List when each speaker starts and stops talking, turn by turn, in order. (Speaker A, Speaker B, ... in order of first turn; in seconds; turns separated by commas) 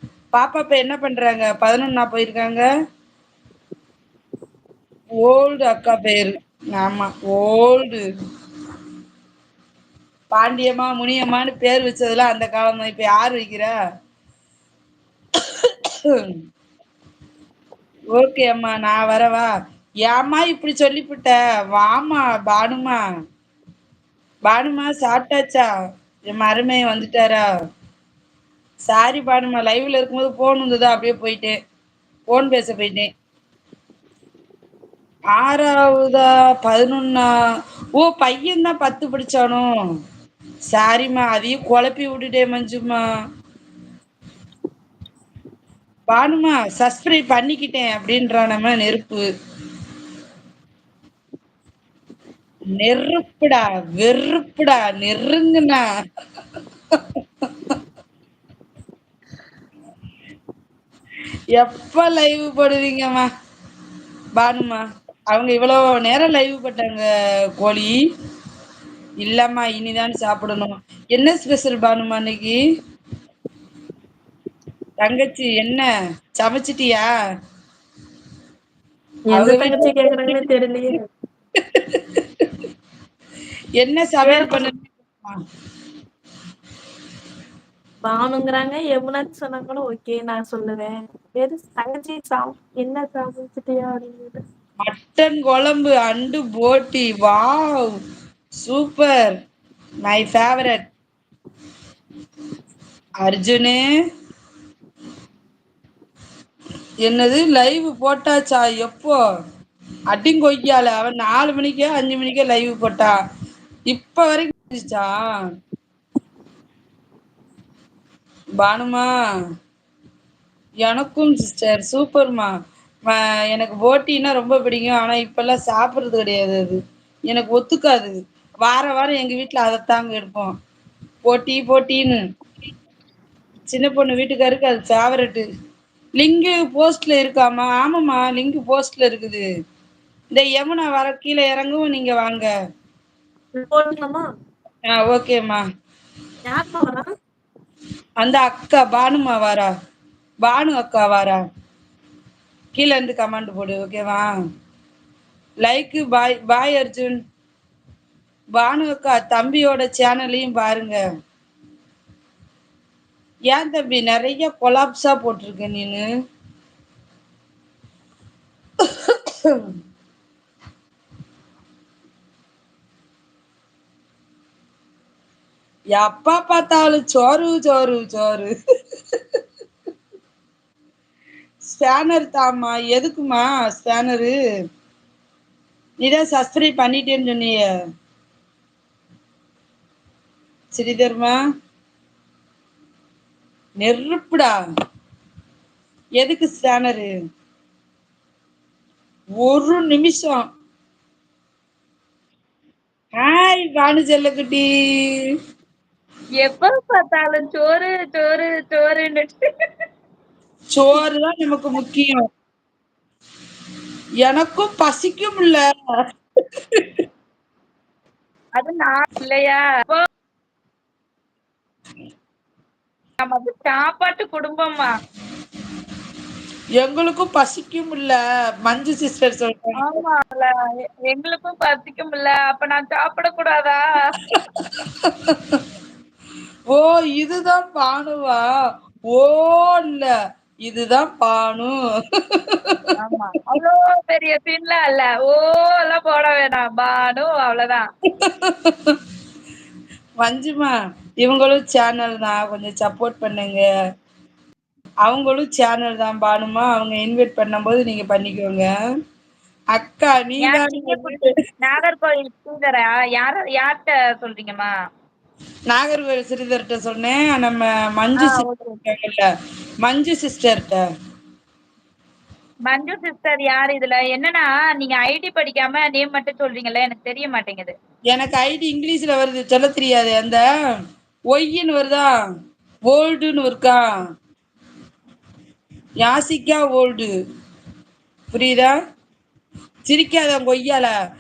Speaker A: 0.3-2.6, Speaker A: 5.2-8.0, Speaker A: 10.3-13.7, Speaker A: 18.1-19.5, Speaker A: 20.1-23.0, Speaker A: 24.5-25.7, Speaker A: 26.3-27.4, Speaker A: 28.9-31.6, Speaker A: 32.3-33.1, Speaker A: 35.4-37.3, Speaker A: 38.0-39.7, Speaker A: 40.7-43.0, Speaker A: 46.1-49.2, Speaker A: 52.8-55.8, Speaker A: 61.6-63.3, Speaker A: 64.4-67.0, Speaker A: 67.6-68.0, Speaker A: 69.2-72.6, Speaker A: 75.0-75.9, Speaker A: 76.4-77.1, Speaker B: 79.3-81.0, Speaker A: 79.3-80.4, Speaker A: 81.8-82.4, Speaker A: 83.8-85.4, Speaker B: 84.2-84.7, Speaker B: 88.1-94.4, Speaker A: 94.8-97.9, Speaker A: 98.6-99.2, Speaker A: 100.0-100.8, Speaker A: 103.2-103.8, Speaker A: 107.1-109.2, Speaker A: 110.1-113.2, Speaker A: 113.9-115.1, Speaker A: 118.6-119.1, Speaker A: 120.8-122.5, Speaker A: 123.1-126.8, Speaker A: 127.3-128.1, Speaker A: 128.7-130.5, Speaker A: 131.3-132.2, Speaker A: 133.7-135.4, Speaker A: 136.2-139.4, Speaker A: 140.3-142.5, Speaker B: 143.6-144.3, Speaker A: 144.9-145.6, Speaker B: 146.4-147.1, Speaker A: 148.2-149.7, Speaker A: 150.4-151.4, Speaker A: 152.8-154.3, Speaker A: 155.6-157.2, Speaker A: 158.6-161.0, Speaker A: 163.5-166.1, Speaker A: 169.1-169.6, Speaker A: 176.0-178.5, Speaker A: 181.7-184.3, Speaker A: 186.0-187.7, Speaker A: 190.7-191.4, Speaker A: 193.8-194.5, Speaker A: 196.2-197.1, Speaker A: 199.4-200.4, Speaker A: 203.2-204.7, Speaker C: 206.4-209.4, Speaker A: 210.7-212.2, Speaker A: 214.2-215.6, Speaker C: 218.6-220.0, Speaker C: 223.2-224.9, Speaker A: 226.8-229.8, Speaker C: 229.8-230.5, Speaker C: 231.1-233.8, Speaker A: 234.4-235.6, Speaker A: 236.7-238.4, Speaker A: 239.1-240.1, Speaker A: 240.7-241.8, Speaker A: 242.5-242.8, Speaker C: 243.0-247.8, Speaker A: 248.2-249.0, Speaker A: 250.2-253.6, Speaker A: 255.1-258.7, Speaker A: 259.7-261.3, Speaker C: 260.4-264.7, Speaker A: 265.7-269.3, Speaker C: 268.2-268.8, Speaker A: 269.9-270.8, Speaker C: 272.7-277.7, Speaker A: 278.1-280.4, Speaker A: 281.3-282.1, Speaker A: 282.9-283.8, Speaker A: 286.0-287.1, Speaker A: 288.3-288.7, Speaker A: 289.9-290.9